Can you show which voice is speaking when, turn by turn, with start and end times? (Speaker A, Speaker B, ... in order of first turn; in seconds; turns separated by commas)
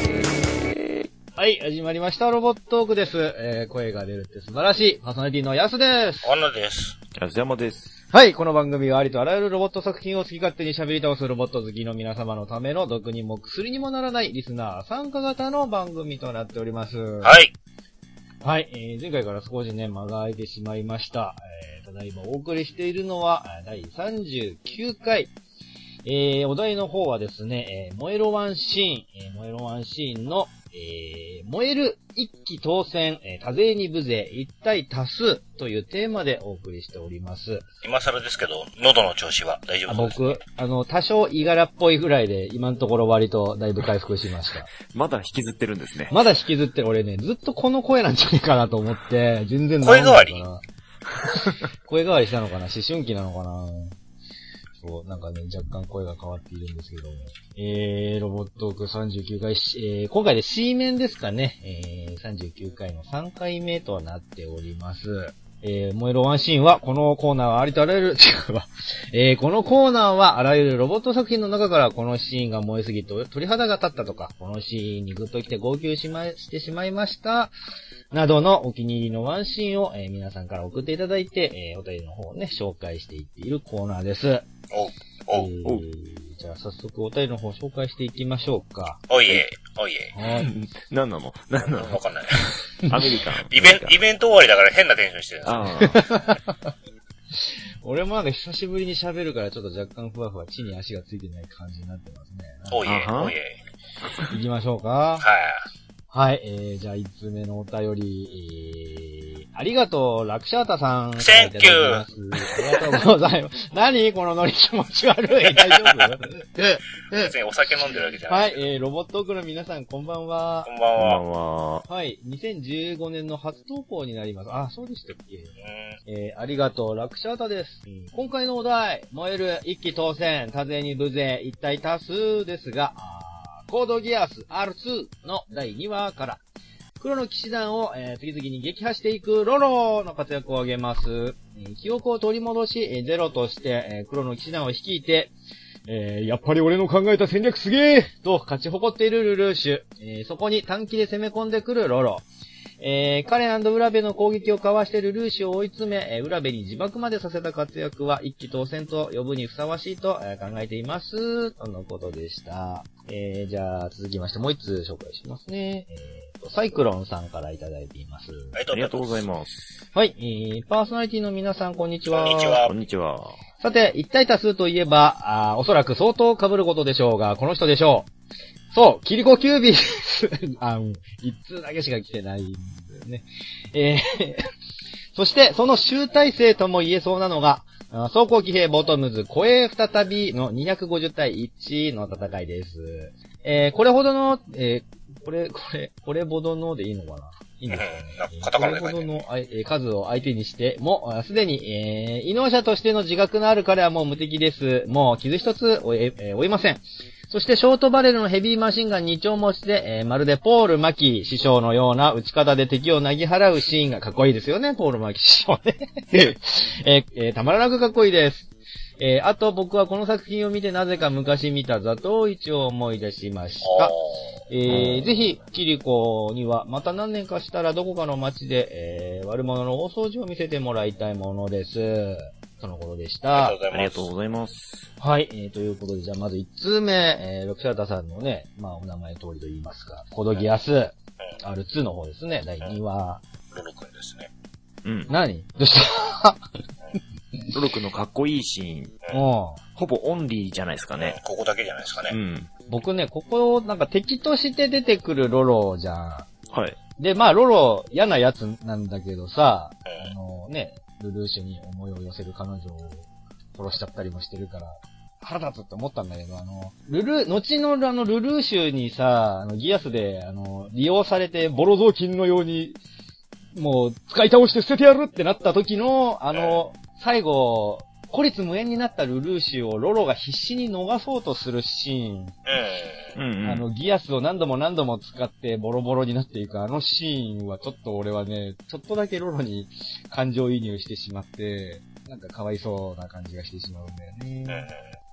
Speaker A: 1.4-6.3, Speaker B: 6.2-7.0, Speaker C: 7.1-8.0, Speaker A: 8.1-17.4, Speaker B: 17.2-17.5, Speaker A: 18.4-25.3, Speaker A: 26.0-37.6, Speaker B: 37.8-40.4, Speaker A: 39.9-44.7, Speaker C: 44.9-46.1, Speaker A: 46.1-50.6, Speaker B: 49.8-50.4, Speaker A: 51.8-54.0, Speaker A: 54.8-77.5, Speaker A: 78.1-84.4, Speaker B: 84.7-85.5, Speaker A: 85.3-89.4, Speaker B: 89.1-90.1, Speaker A: 90.1-90.5, Speaker C: 90.3-92.0, Speaker B: 91.6-92.5, Speaker C: 92.8-94.0, Speaker B: 93.5-95.7, Speaker C: 95.4-96.0, Speaker A: 95.8-96.5, Speaker A: 97.3-102.8, Speaker B: 102.7-103.6, Speaker C: 102.8-103.3, Speaker A: 104.3-105.2, Speaker B: 105.2-105.6, Speaker A: 106.1-117.3, Speaker B: 111.2-112.0, Speaker B: 117.2-118.6, Speaker A: 118.3-120.7, Speaker B: 120.7-121.2, Speaker C: 121.0-121.9, Speaker A: 121.9-125.5, Speaker B: 125.6-126.0, Speaker A: 126.0-136.4, Speaker A: 137.0-145.3, Speaker A: 145.9-152.2, Speaker A: 152.8-168.6, Speaker B: 168.5-169.2, Speaker C: 168.7-169.7, Speaker A: 169.9-172.6, Speaker B: 172.1-172.7, Speaker C: 172.6-173.4, Speaker A: 173.6-178.1, Speaker A: 178.7-184.5, Speaker A: 185.1-223.9, Speaker B: 197.7-199.2, Speaker B: 223.6-224.2, Speaker A: 224.5-233.6, Speaker C: 224.7-225.2, Speaker B: 233.3-234.1, Speaker C: 233.7-234.9, Speaker A: 235.0-243.2, Speaker B: 243.5-244.3, Speaker C: 244.8-245.1, Speaker A: 245.1-246.4, Speaker C: 247.5-248.9, Speaker A: 249.1-249.6, Speaker C: 249.7-251.2, Speaker B: 251.0-252.2, Speaker C: 252.1-252.5, Speaker A: 252.7-256.3, Speaker C: 256.5-256.8, Speaker A: 257.0-272.8, Speaker B: 259.9-260.1, Speaker A: 273.5-282.3, Speaker B: 276.3-276.6, Speaker B: 282.4-283.1, Speaker C: 283.1-283.6, Speaker A: 283.4-294.7, Speaker B: 294.5-294.8